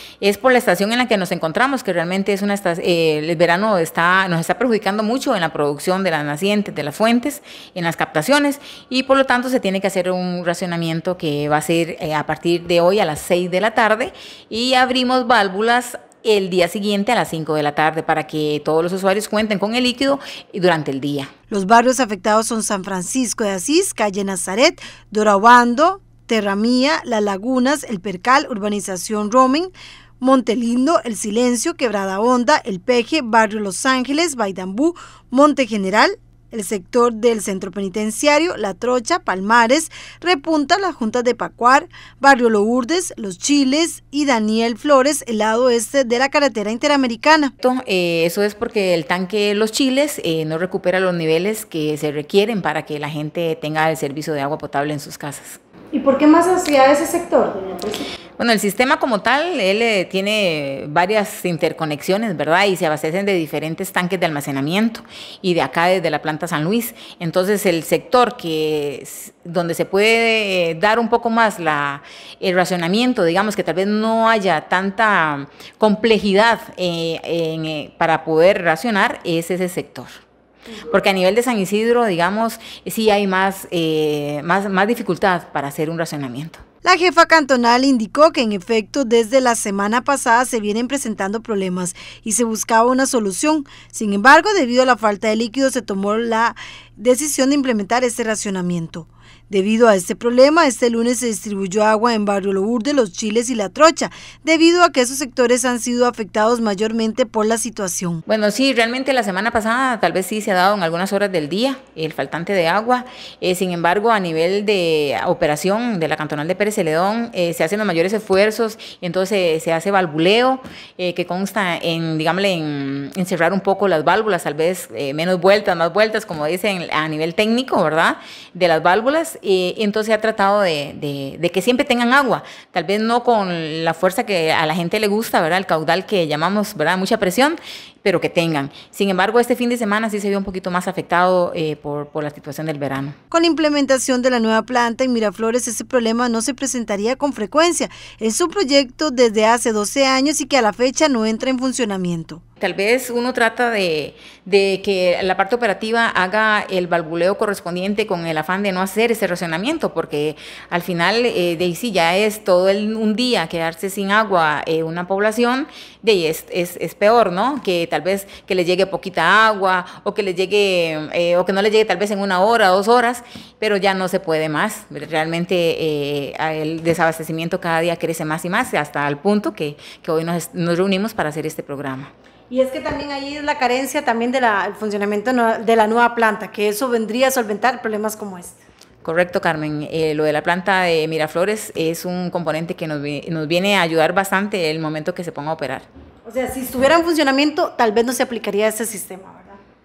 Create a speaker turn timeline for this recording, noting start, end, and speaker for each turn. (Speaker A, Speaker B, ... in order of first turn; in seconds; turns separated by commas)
Speaker A: 0.2-21.3, Speaker B: 21.5-47.5, Speaker A: 47.6-55.6, Speaker B: 55.9-58.0, Speaker A: 58.4-80.1, Speaker A: 80.9-86.6, Speaker B: 86.8-108.2, Speaker A: 108.3-143.1, Speaker B: 143.3-152.4, Speaker A: 152.6-182.1, Speaker B: 182.5-188.6, Speaker A: 189.0-195.8, Speaker B: 196.2-199.6